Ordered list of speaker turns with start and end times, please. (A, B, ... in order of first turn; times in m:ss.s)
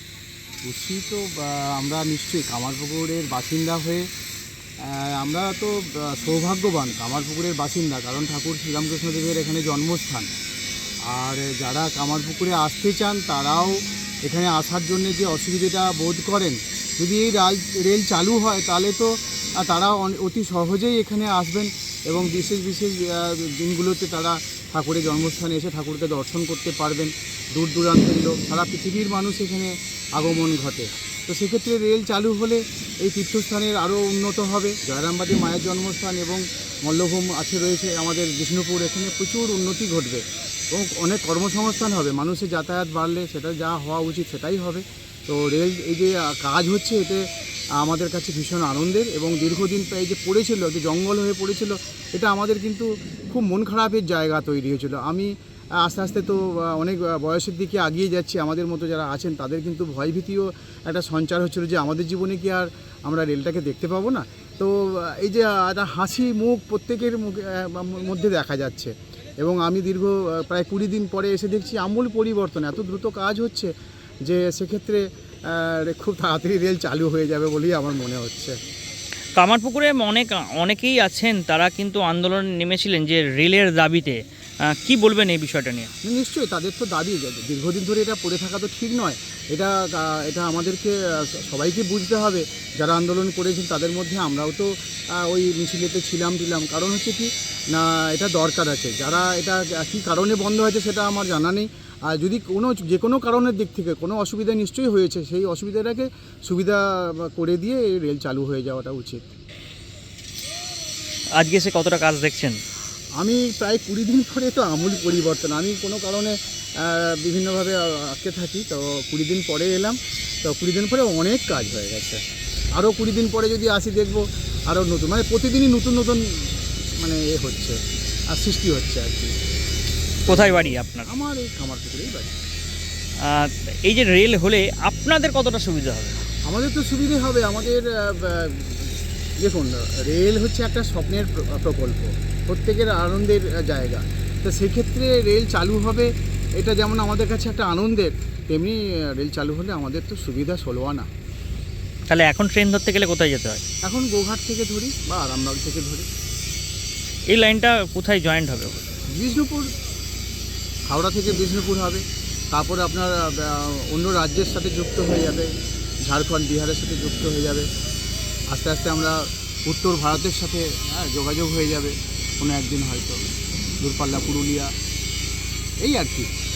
0:00.6-0:04.0 A
0:04.8-0:10.3 A
0:11.1-0:47.2 A
0:47.8-0:55.3 A
0:55.8-1:13.7 A
1:14.2-1:18.6 A
1:19.4-1:24.2 B
1:24.8-1:25.9 B
1:26.0-1:49.3 A
1:51.4-1:52.5 B
1:53.2-2:02.2 A
2:02.8-2:07.8 A
2:08.3-2:09.3 A
2:10.2-2:12.3 A
2:10.3-2:11.1 B
2:13.3-2:16.2 B
2:16.5-2:31.1 A
2:32.1-2:33.6 B
2:33.8-2:36.0 A
2:37.3-2:38.8 B
2:39.1-2:39.7 A
2:40.9-2:45.5 A
2:46.0-2:47.7 A
2:48.5-2:53.2 A
2:53.8-2:54.7 A
2:55.8-2:56.3 A